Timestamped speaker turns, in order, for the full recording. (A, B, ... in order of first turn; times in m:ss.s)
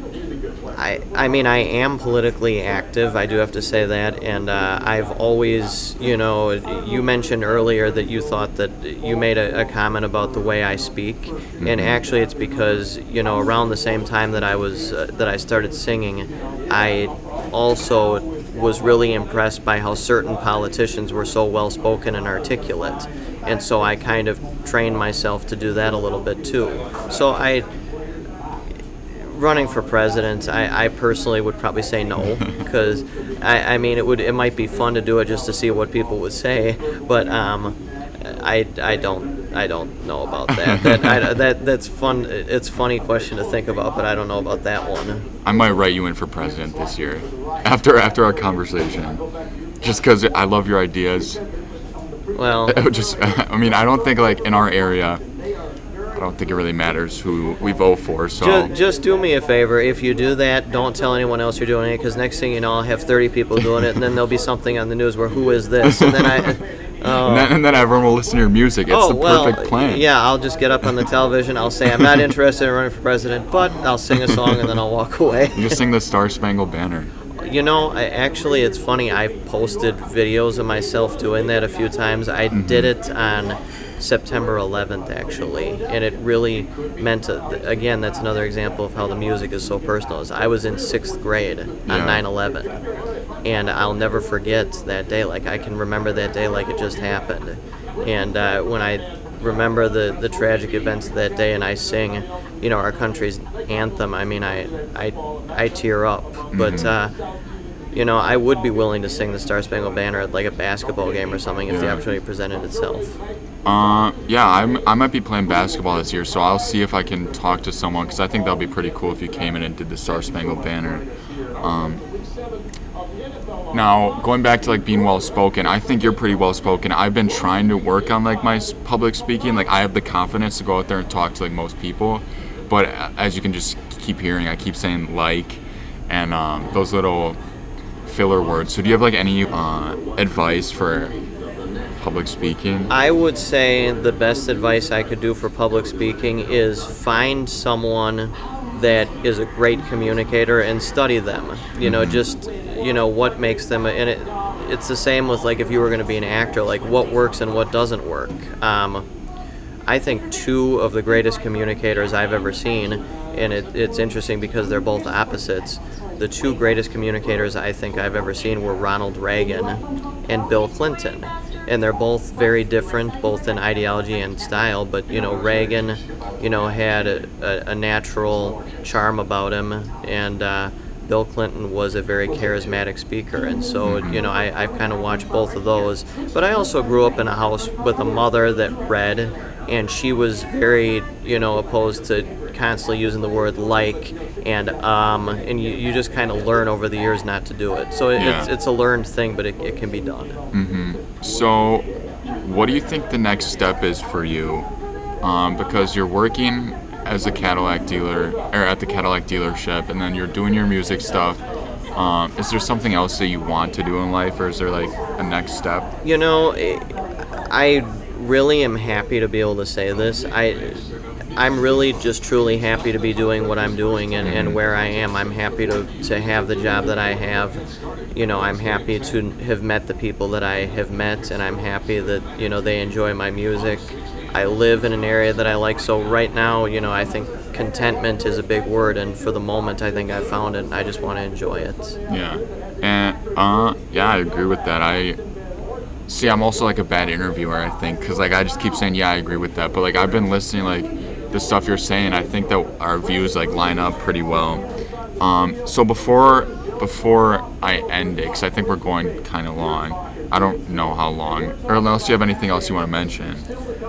0:00.8-0:27.7 A
0:11.6-0:12.0 B
0:29.2-0:45.2 A
0:32.2-0:32.6 B
0:40.5-0:41.3 B
0:45.4-0:49.2 B
0:49.8-0:51.4 B
0:52.4-0:52.8 A
0:52.7-0:55.2 B
0:56.2-0:58.7 B
0:58.4-1:07.5 A
1:05.8-1:10.1 B
1:08.9-1:15.8 A
1:14.2-1:14.7 B
1:15.5-1:17.1 B
1:17.4-1:32.8 A
1:22.5-1:22.9 B
1:31.9-1:32.2 B
1:33.4-1:47.1 A
1:46.5-1:46.9 B
1:47.9-1:53.2 A
1:51.7-1:52.0 B
1:53.6-2:01.1 B
2:01.6-2:02.0 B
2:03.7-2:17.4 B
2:18.0-2:21.1 B
2:22.0-2:22.9 B
2:22.9-2:39.1 A
2:31.8-2:32.2 B
2:39.9-3:20.4 A
3:03.8-3:04.2 B
3:18.2-3:18.5 B
3:20.5-3:21.9 B
3:22.4-3:24.7 B
3:25.2-3:31.4 B
3:32.0-3:35.9 B
3:36.0-3:40.8 A
3:41.4-3:47.6 A
3:44.2-3:44.6 B
3:48.2-4:02.0 A
4:02.1-4:05.2 B
4:06.1-4:14.6 B
4:15.2-4:23.5 B